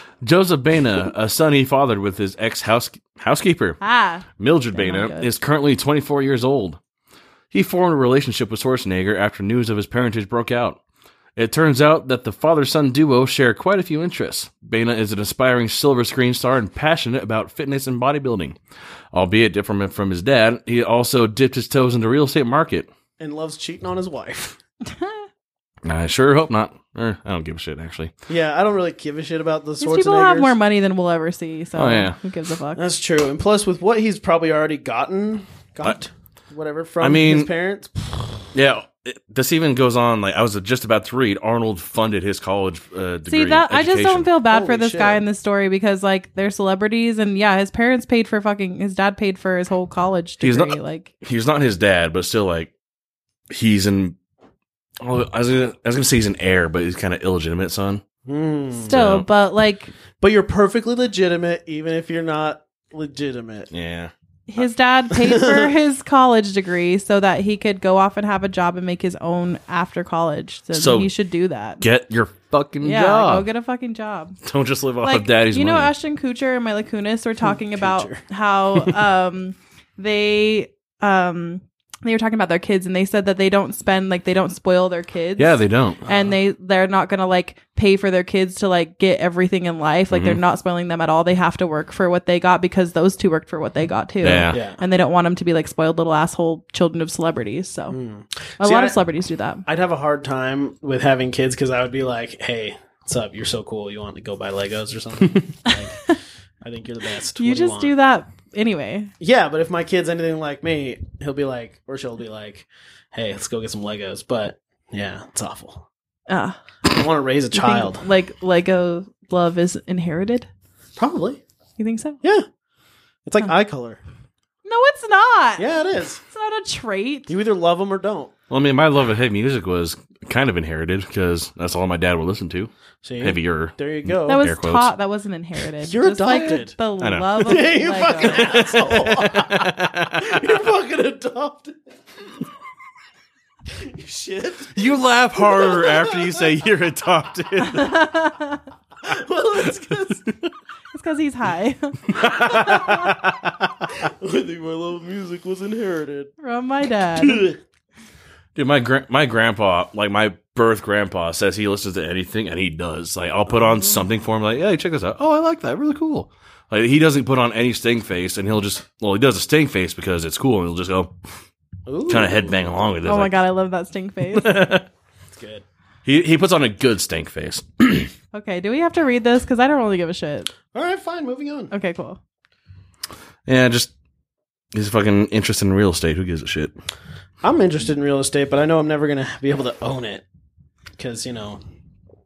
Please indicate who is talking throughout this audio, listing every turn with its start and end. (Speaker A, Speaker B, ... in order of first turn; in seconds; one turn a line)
Speaker A: 0.2-3.8
Speaker B: 3.8-5.3
Speaker A: 4.4-6.8
Speaker A: 7.5-10.8
Speaker A: 11.4-18.6
Speaker A: 19.1-22.9
Speaker C: 23.2-24.6
Speaker B: 24.9-25.2
Speaker A: 25.8-28.1
Speaker C: 28.3-30.5
Speaker B: 29.8-32.8
Speaker A: 31.8-32.2
Speaker C: 32.8-38.5
Speaker A: 37.0-37.5
Speaker A: 38.5-44.3
Speaker B: 43.3-51.1
Speaker C: 44.5-45.2
Speaker A: 50.4-52.7
Speaker A: 53.5-54.1
Speaker A: 55.0-58.0
Speaker C: 58.2-59.0
Speaker B: 58.8-59.9
Speaker A: 58.9-59.2
Speaker C: 60.2-63.7
Speaker A: 63.7-64.1
Speaker B: 64.5-71.8
Speaker C: 65.1-65.7
Speaker A: 70.7-71.1
Speaker A: 71.8-73.5
Speaker B: 72.8-74.4
Speaker A: 74.4-75.9
Speaker B: 75.0-98.0
Speaker C: 77.4-78.2
Speaker A: 85.4-86.0
Speaker C: 86.0-86.3
Speaker A: 90.1-90.4
Speaker A: 94.2-94.6
Speaker C: 94.5-94.8
Speaker C: 97.9-99.0
Speaker B: 98.6-99.6
Speaker C: 99.7-107.9
Speaker B: 105.7-106.1
Speaker B: 107.4-109.1
Speaker C: 109.2-115.9
Speaker B: 116.3-116.6
Speaker C: 116.8-118.0
Speaker B: 117.5-120.5
Speaker C: 121.0-121.4
Speaker B: 121.8-122.2
Speaker C: 122.2-122.5
Speaker C: 123.2-124.0
Speaker B: 124.6-125.6
Speaker C: 125.6-126.2
Speaker B: 126.2-127.3
Speaker C: 127.3-128.3
Speaker A: 128.5-134.9
Speaker C: 133.0-134.5
Speaker B: 134.2-138.6
Speaker C: 135.8-136.7
Speaker A: 137.0-137.6
Speaker C: 137.4-141.8
Speaker A: 138.2-140.4
Speaker C: 143.7-146.5
Speaker A: 144.7-148.0
Speaker B: 147.6-148.6
Speaker C: 149.0-150.3
Speaker B: 150.9-153.0
Speaker A: 152.1-153.9
Speaker C: 152.4-153.1
Speaker C: 153.9-156.3
Speaker B: 156.4-157.5
Speaker C: 157.2-157.5
Speaker A: 158.5-171.1
Speaker C: 171.9-172.8
Speaker A: 172.1-173.4
Speaker B: 173.0-174.7
Speaker A: 174.3-174.9
Speaker C: 175.3-175.6
Speaker A: 176.0-178.1
Speaker B: 178.3-180.5
Speaker C: 180.7-181.7
Speaker B: 181.7-182.2
Speaker A: 183.5-183.9
Speaker A: 184.7-186.7
Speaker C: 187.4-190.2
Speaker C: 191.0-191.6